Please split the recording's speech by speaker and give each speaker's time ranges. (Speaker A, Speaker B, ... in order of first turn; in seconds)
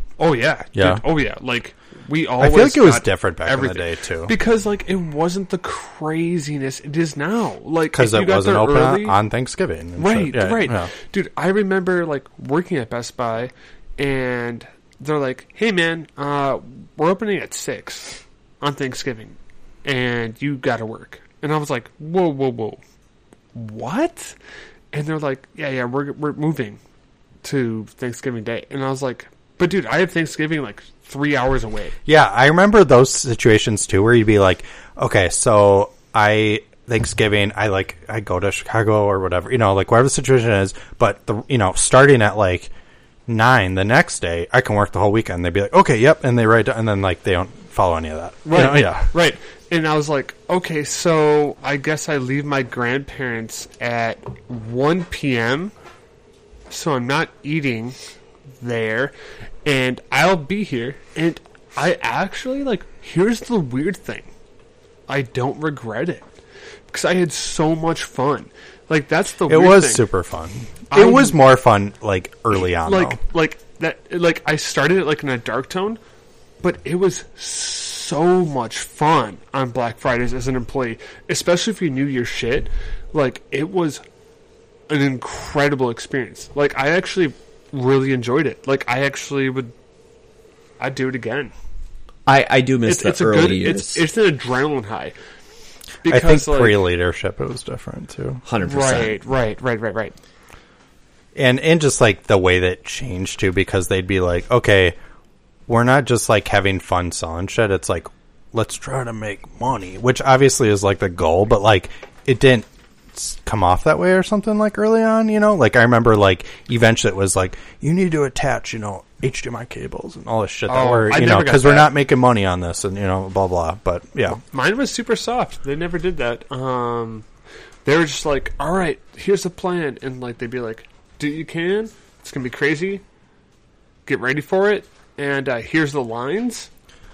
Speaker A: 0.2-9.2, 10.0-22.8, 23.6-24.4, 24.9-26.8, 27.4-31.9, 48.5-55.7, 56.7-58.0, 58.6-59.1, 59.6-64.3, 65.1-66.3, 66.9-70.0, 70.9-71.4, 72.6-76.0, 76.6-84.0, 84.9-89.7, 90.8-91.5, 92.9-95.2, 96.0-96.8, 98.6-100.2, 120.7-121.9, 124.4-127.3, 127.8-133.0, 134.1-136.7
Speaker B: 0.8-1.0, 2.4-4.3, 7.9-10.9, 32.1-42.7, 43.3-49.1, 69.5-73.2, 96.1-98.4, 101.3-105.0, 105.7-124.4
Speaker C: 92.3-94.0, 98.5-99.2